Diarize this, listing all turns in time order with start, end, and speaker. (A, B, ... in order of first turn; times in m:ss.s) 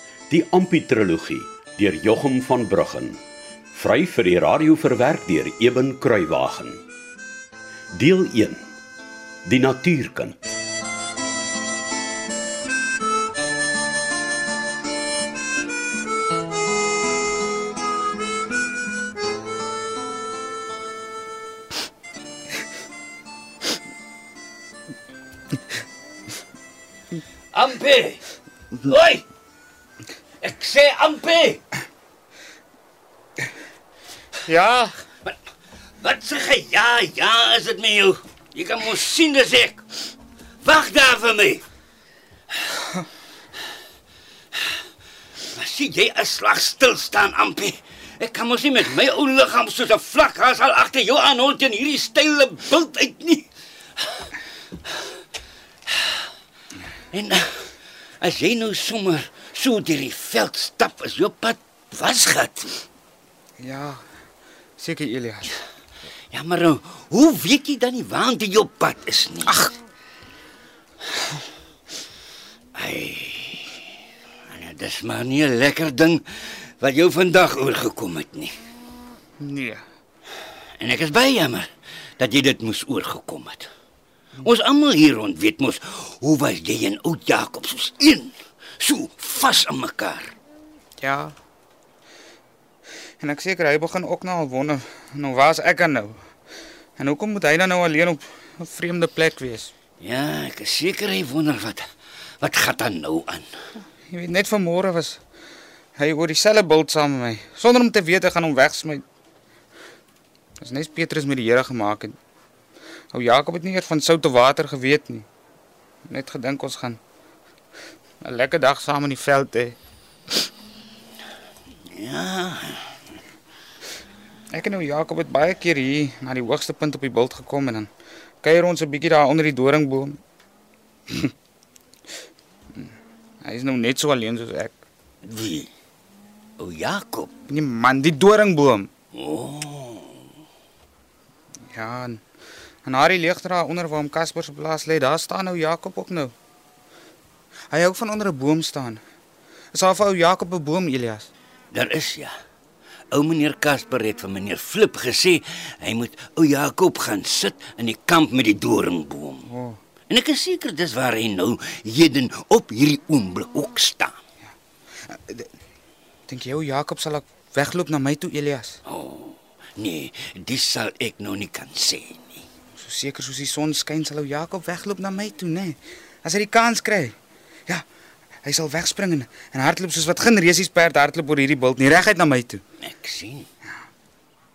0:00.3-0:03.2 A
0:03.7-0:06.8 A
0:07.9-0:08.6 A
0:09.5-0:10.4 A
0:27.5-0:28.2 B
0:28.8-0:29.2 B
0:30.4-0:31.6 B
0:34.5-0:35.0 C
0:36.0-0:39.8 B
0:40.6-0:41.6 B
0:45.5-0:53.5 B
0:57.1-0:57.7 B
0:58.2-1:02.8 B
1:03.6-1:04.0 C
1:04.8-1:05.5 C
1:06.3-1:09.6 B
1:09.5-1:09.7 C
1:12.8-1:13.8 B
1:14.5-1:16.2 B
1:16.8-1:18.6 B
1:19.4-1:19.8 C
1:20.8-1:21.7 B
1:22.2-1:23.7 B
1:24.4-1:30.4 B
1:31.0-1:31.4 C
1:33.2-1:36.2 C
1:37.0-1:39.7 C
1:40.0-1:41.9 B
1:42.4-1:43.5 B
1:44.1-1:45.2 C
1:46.0-1:49.0 C
1:50.6-1:52.2 C
1:53.1-1:55.3 C
1:56.1-1:57.0 C
1:58.2-1:59.8 C
2:01.9-2:03.0 B
2:04.5-2:07.9 C
2:08.4-2:10.2 C
2:13.4-2:14.8 C
2:15.2-2:15.7 B
2:16.6-2:17.3 B
2:17.5-2:18.9 C
2:19.1-2:20.2 B
2:21.7-2:22.2 C
2:22.8-2:26.3 C
2:27.7-2:29.0 C
2:29.7-2:31.3 C
2:31.7-2:32.3 B
2:33.1-2:39.5 B
2:39.5-2:39.8 C
2:40.1-2:44.2 B
2:45.1-2:45.5 C
2:46.3-2:48.8 C
2:48.9-2:52.4 B
2:52.8-2:57.2 C
2:58.4-3:02.6 C
3:02.8-3:03.5 B